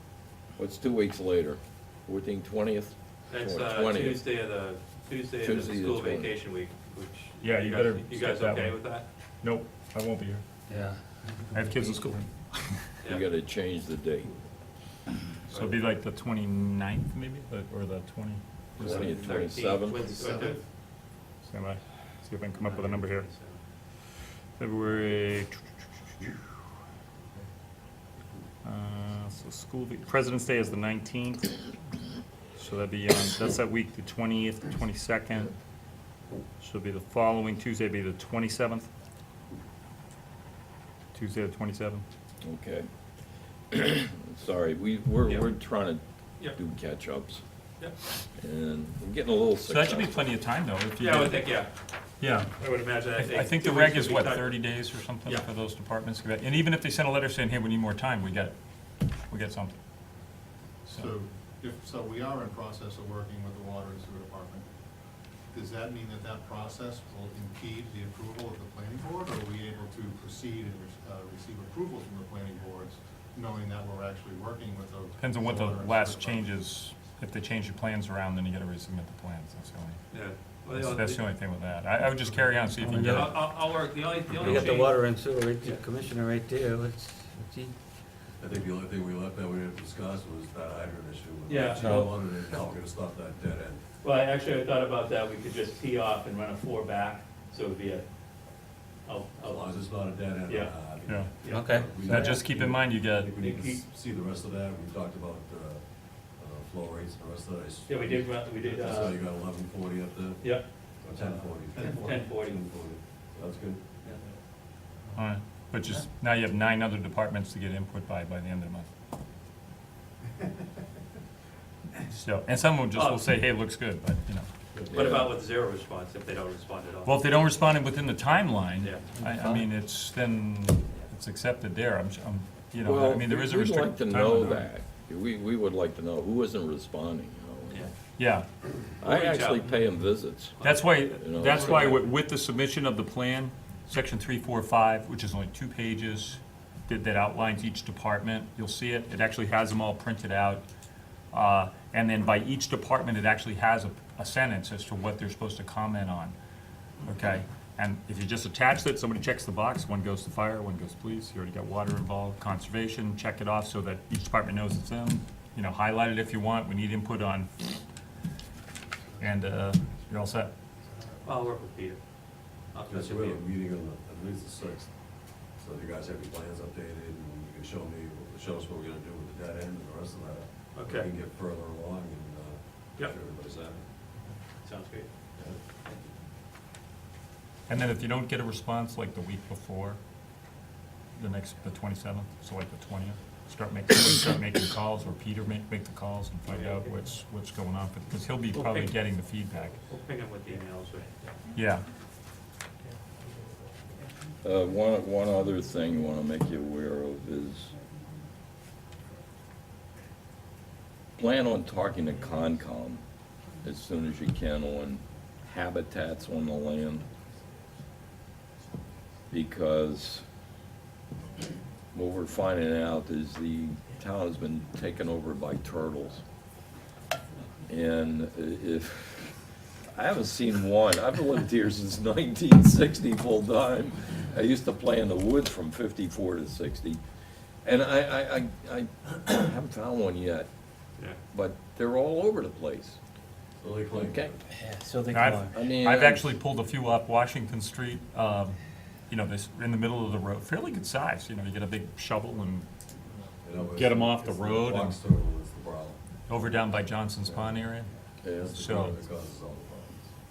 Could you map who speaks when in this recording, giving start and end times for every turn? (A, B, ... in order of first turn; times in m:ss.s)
0:00.6-0:04.3 A
0:03.3-0:09.1 B
0:05.4-0:06.3 A
0:07.4-0:08.9 C
0:09.4-0:10.4 C
0:10.7-0:12.2 D
0:11.5-0:12.9 C
0:13.1-0:14.3 A
0:15.5-0:18.4 C
0:15.5-0:15.8 B
0:18.8-0:20.2 A
0:18.8-0:20.6 B
0:20.2-0:20.5 E
0:21.5-0:23.3 C
0:22.6-0:23.6 B
0:24.6-0:25.6 C
0:28.6-0:31.6 C
0:32.6-0:35.5 C
0:36.6-0:38.9 C
0:41.1-0:42.0 C
0:42.4-0:42.9 A
0:43.7-0:47.4 A
0:45.3-0:45.5 B
0:48.4-0:50.3 A
0:49.7-0:51.5 C
0:51.0-0:51.7 B
0:52.2-0:58.5 C
0:52.6-0:54.6 B
0:59.3-0:59.8 C
1:00.9-1:04.7 E
1:05.5-1:16.5 E
1:15.2-1:20.0 C
1:20.1-1:21.2 B
1:20.7-1:23.4 C
1:22.8-1:23.4 D
1:23.1-1:25.0 B
1:24.3-1:24.9 C
1:24.5-1:27.8 D
1:28.4-1:33.8 F
1:31.5-1:32.1 B
1:31.8-1:32.1 D
1:34.0-1:38.0 B
1:39.0-1:39.9 B
1:39.4-1:54.0 F
1:40.4-1:40.8 B
1:41.1-1:41.3 C
1:41.4-1:42.4 B
1:41.5-1:42.4 D
1:42.0-1:43.4 C
1:43.4-1:43.8 B
1:47.9-1:49.2 B
1:50.4-1:52.8 B
1:55.2-1:58.9 C
2:02.1-2:04.5 C
2:03.0-2:03.3 B
2:04.8-2:05.1 F
2:04.9-2:05.3 A
2:04.9-2:07.2 B
2:07.0-2:14.7 C
2:08.8-2:09.1 B
2:09.2-2:09.7 D
2:12.8-2:17.9 A
2:18.2-2:18.5 C
2:19.0-2:19.8 B
2:19.0-2:20.6 A
2:20.6-2:22.0 B
2:20.6-2:30.7 C
2:21.2-2:22.0 A
2:31.3-2:36.4 C
2:37.1-2:47.5 C
2:49.2-2:50.5 C
2:51.2-2:52.0 B
2:52.7-2:53.4 B
2:52.9-2:54.9 F
2:55.5-3:03.8 F
3:00.8-3:01.1 B
3:04.6-3:05.1 B
3:05.4-3:05.6 F
3:07.7-3:10.0 C
3:11.2-3:19.8 C
3:16.5-3:16.9 B
3:18.5-3:19.0 B
3:19.9-3:21.1 B
3:21.5-3:21.9 C
3:24.4-3:27.8 A
3:31.2-3:33.0 A
3:33.6-3:37.1 A
3:39.3-3:40.2 A
3:41.9-3:46.2 A
3:47.7-3:57.0 A
3:57.6-4:00.5 A
4:01.3-4:03.0 A
4:03.6-4:04.4 F
4:04.0-4:04.4 A
4:04.6-4:05.6 D
4:05.1-4:08.6 C
4:05.5-4:06.3 A
4:09.1-4:12.7 C
4:13.4-4:16.0 F
4:13.7-4:15.0 C
4:16.3-4:17.9 C
4:17.2-4:17.6 F
4:18.2-4:18.6 A
4:18.2-4:20.1 F
4:18.6-4:19.0 C